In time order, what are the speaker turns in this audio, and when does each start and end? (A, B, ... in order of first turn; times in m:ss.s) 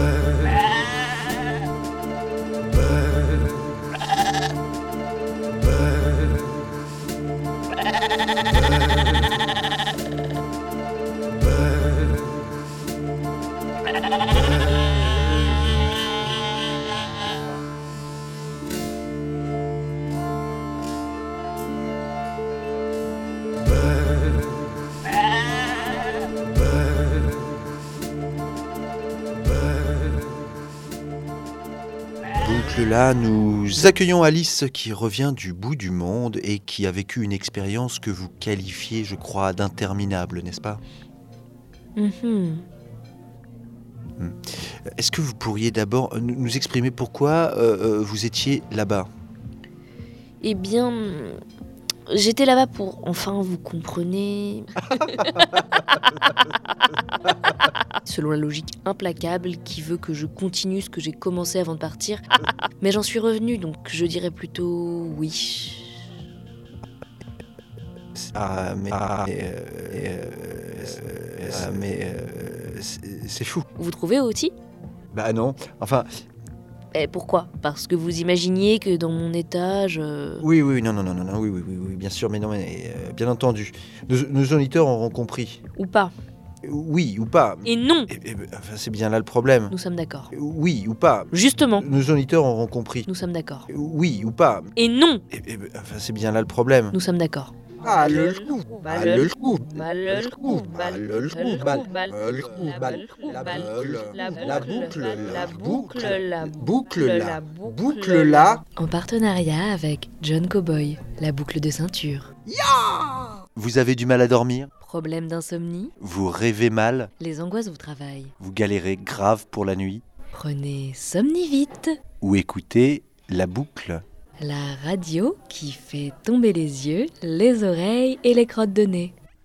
0:32.4-0:40.8 A
0:42.0-0:42.6 B
0:44.2-0:49.1 A
0:50.4-0:51.4 B
0:52.1-0:55.5 B
0:58.0-1:02.2 B
1:02.8-1:05.9 B
1:08.2-1:13.6 A
1:13.8-1:14.5 B
1:15.1-1:16.1 A
1:16.9-1:20.5 B
1:20.4-1:25.6 A
1:25.8-1:26.1 B
1:26.6-1:29.8 A
1:27.6-1:28.1 B
1:29.7-1:30.3 B
1:30.3-1:33.1 A
1:31.3-1:31.8 B
1:33.1-1:33.7 B
1:33.7-1:34.7 A
1:34.8-1:35.2 B
1:35.3-1:37.0 A
1:36.9-1:37.5 B
1:37.8-1:48.2 A
1:37.8-1:48.6 C
1:48.8-1:52.3 B
1:52.5-1:54.7 A
1:54.8-1:55.9 B
1:56.0-1:57.1 A
1:57.2-1:58.3 B
1:58.4-2:00.0 A
2:00.3-2:02.0 B
2:02.2-2:04.0 A
2:04.4-2:09.1 B